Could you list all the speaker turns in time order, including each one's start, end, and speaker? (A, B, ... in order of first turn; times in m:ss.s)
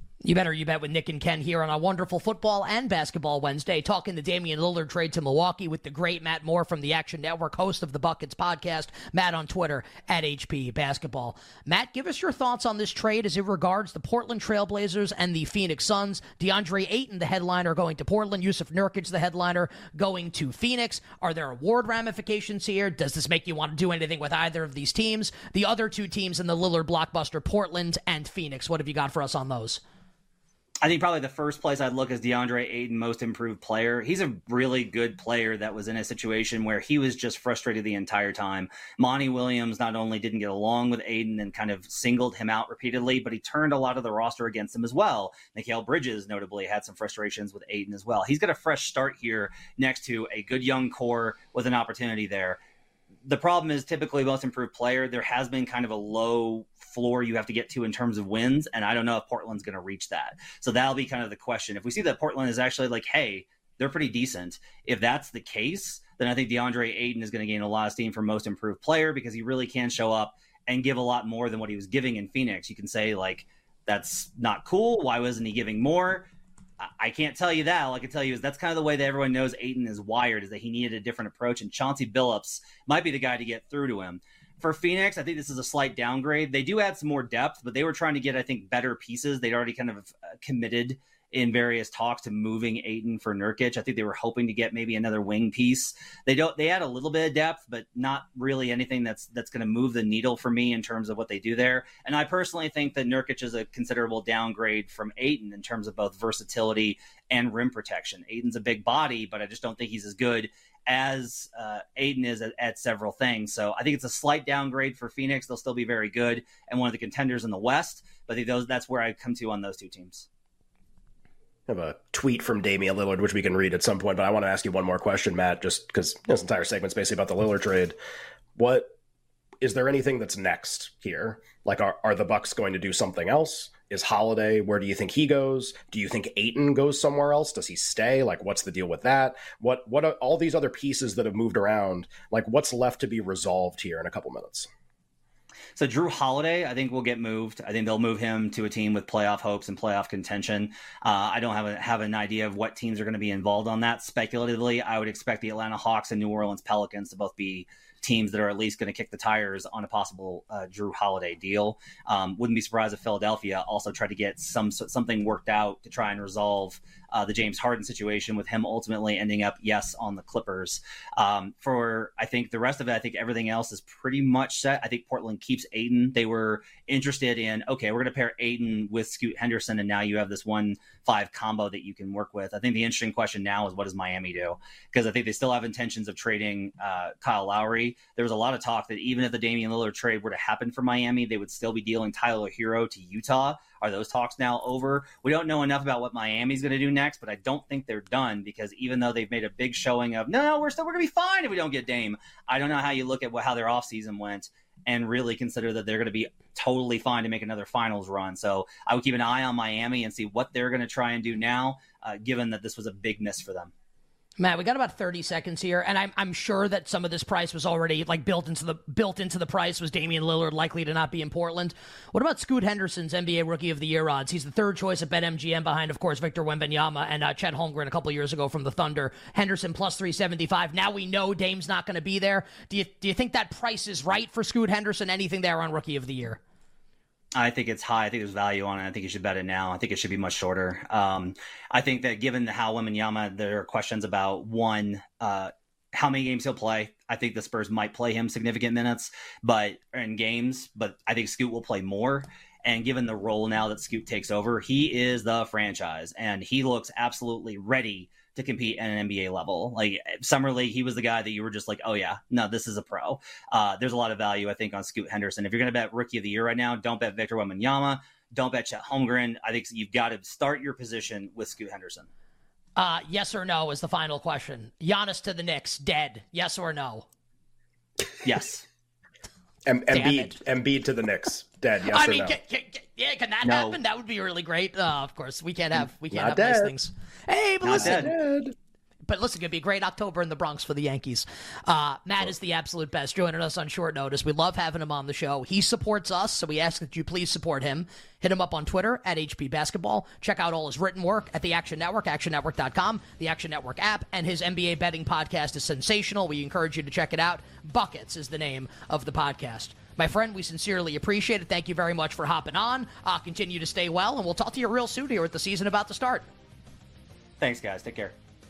0:00.2-0:29.8 A
0:30.8-0:52.6 B
0:53.2-1:16.3 B
1:16.8-2:00.3 B
2:01.7-2:08.0 C
2:08.6-2:08.9 C
2:09.6-2:24.7 C
2:25.8-3:33.7 B
3:34.4-3:56.4 A
3:57.3-4:32.1 B
4:32.8-4:37.0 A
4:38.2-4:38.6 B
4:39.6-4:42.4 C
4:39.9-4:40.4 A
4:41.8-4:48.2 A
4:43.4-4:43.8 B
4:45.7-4:46.7 C
4:47.6-4:48.1 B
4:47.9-4:48.5 C
4:49.1-5:16.2 A
5:17.4-5:18.2 B